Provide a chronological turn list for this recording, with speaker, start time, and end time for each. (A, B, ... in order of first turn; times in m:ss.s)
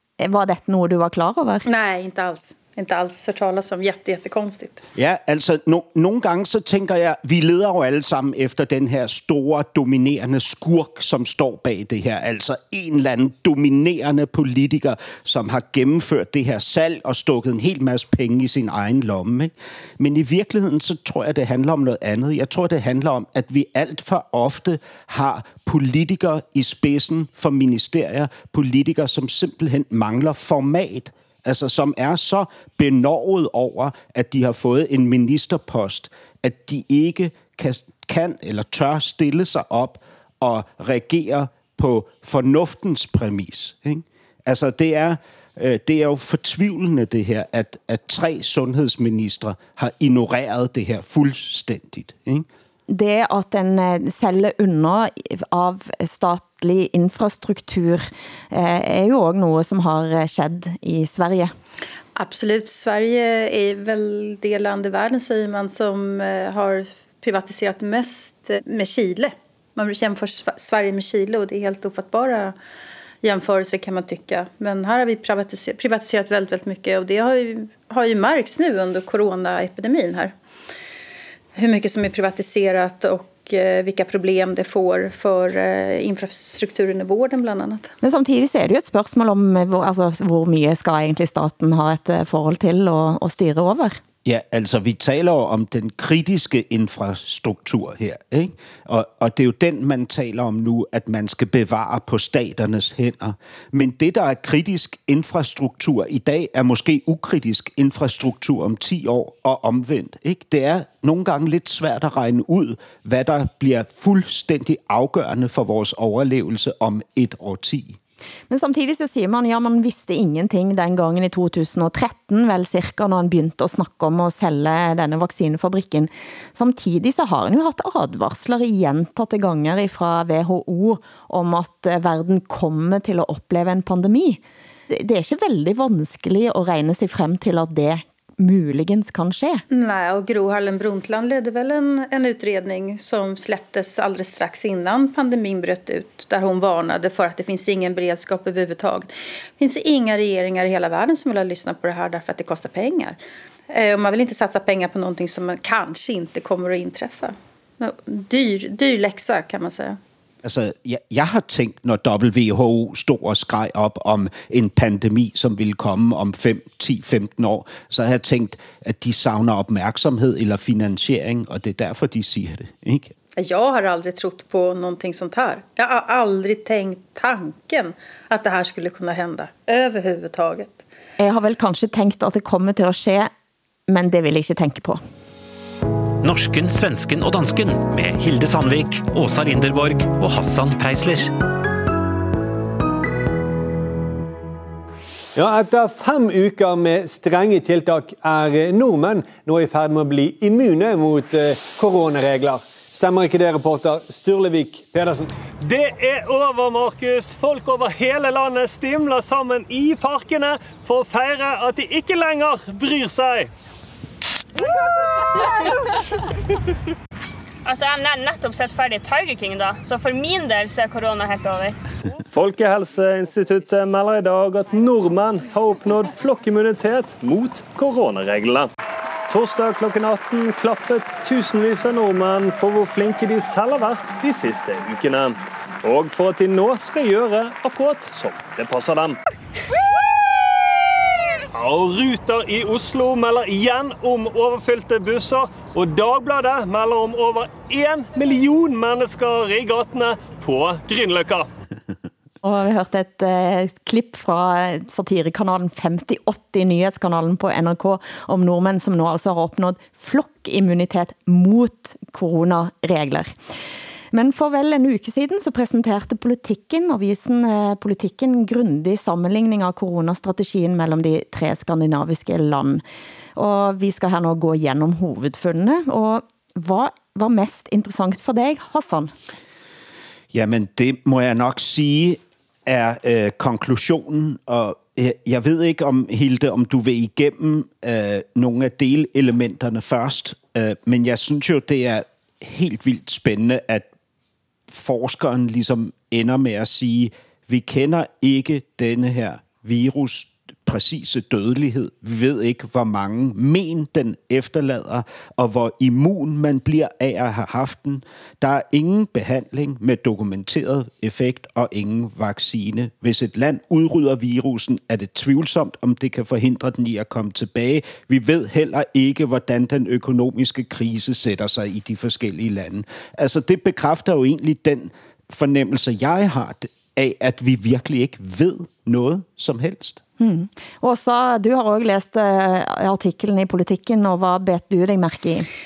0:00.2-0:01.6 A
0:01.7-0:04.8 B
0:04.9-0:52.4 C
0:52.9-1:01.5 A
1:02.2-1:12.5 B
1:13.2-1:20.3 B
1:21.5-1:27.9 B
1:28.0-1:34.0 A
1:34.2-1:58.0 C
1:58.5-2:19.6 A
2:19.7-2:33.2 B
2:33.7-2:40.0 B
2:40.4-2:53.1 C
2:53.4-3:00.8 B
3:01.2-3:03.3 A
3:03.9-3:05.0 A
3:06.2-3:11.3 D
3:15.4-3:25.3 E
3:25.6-3:33.5 F
3:37.6-3:41.8 G
3:42.3-3:48.7 F
3:49.3-3:59.2 F
4:01.5-4:11.5 F
4:12.4-4:23.3 A
4:24.1-4:32.8 A
4:33.4-4:39.1 A
4:40.3-4:53.9 C
4:54.7-5:30.0 C
5:30.2-5:35.5 A